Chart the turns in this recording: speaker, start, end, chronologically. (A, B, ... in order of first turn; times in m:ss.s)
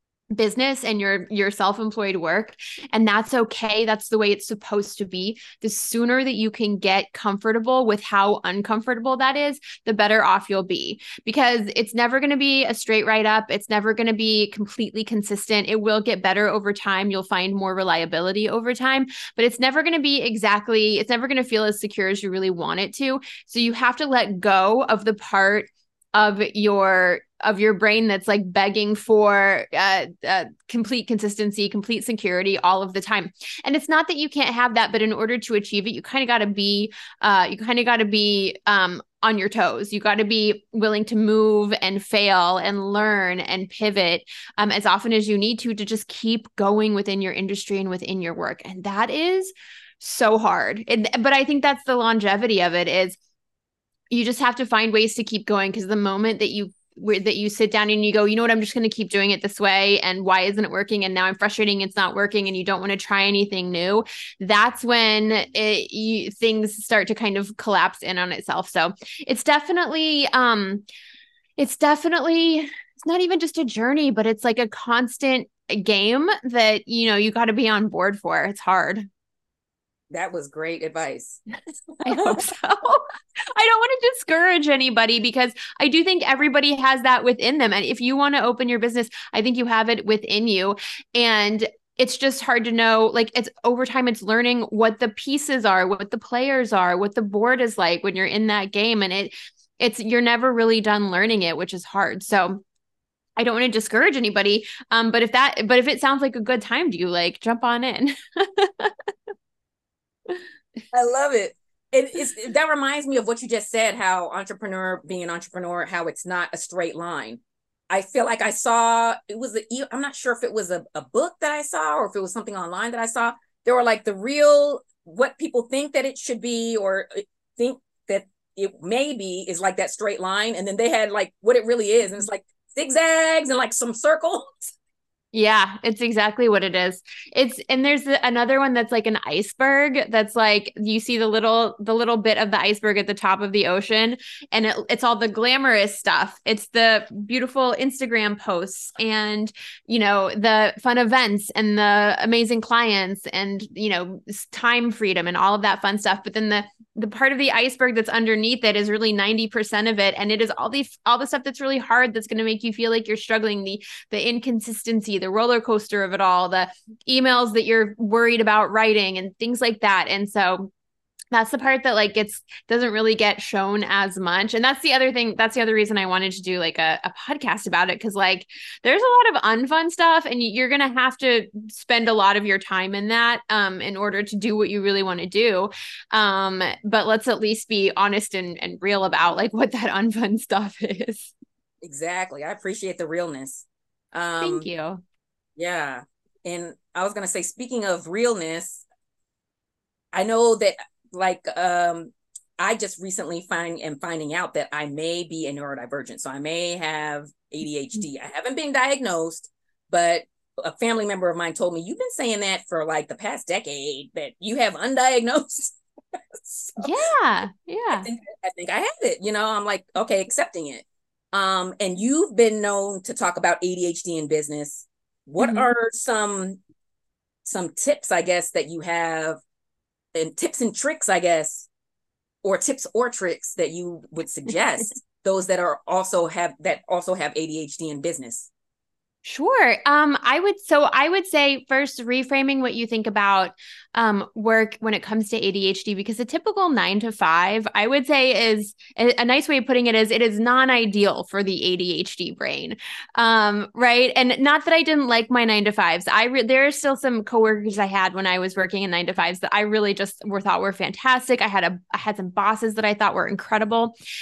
0:00.4-0:53.2 A
0:54.1-1:10.8 A
1:11.6-1:19.1 A
1:20.1-1:21.4 B
1:22.0-1:42.6 A
1:22.1-1:22.4 B
1:43.4-1:48.9 A
1:50.9-2:14.7 B
2:15.3-2:50.7 A
2:51.3-3:11.3 A
3:11.8-3:14.7 B
3:14.4-3:15.0 A
3:15.6-3:18.8 B
3:20.1-3:36.9 B
3:36.8-3:38.1 A
3:38.0-3:46.6 B
3:45.4-3:45.7 A
3:47.4-3:49.4 B
3:50.2-3:51.7 B
3:52.4-3:58.5 B
3:59.2-4:24.0 A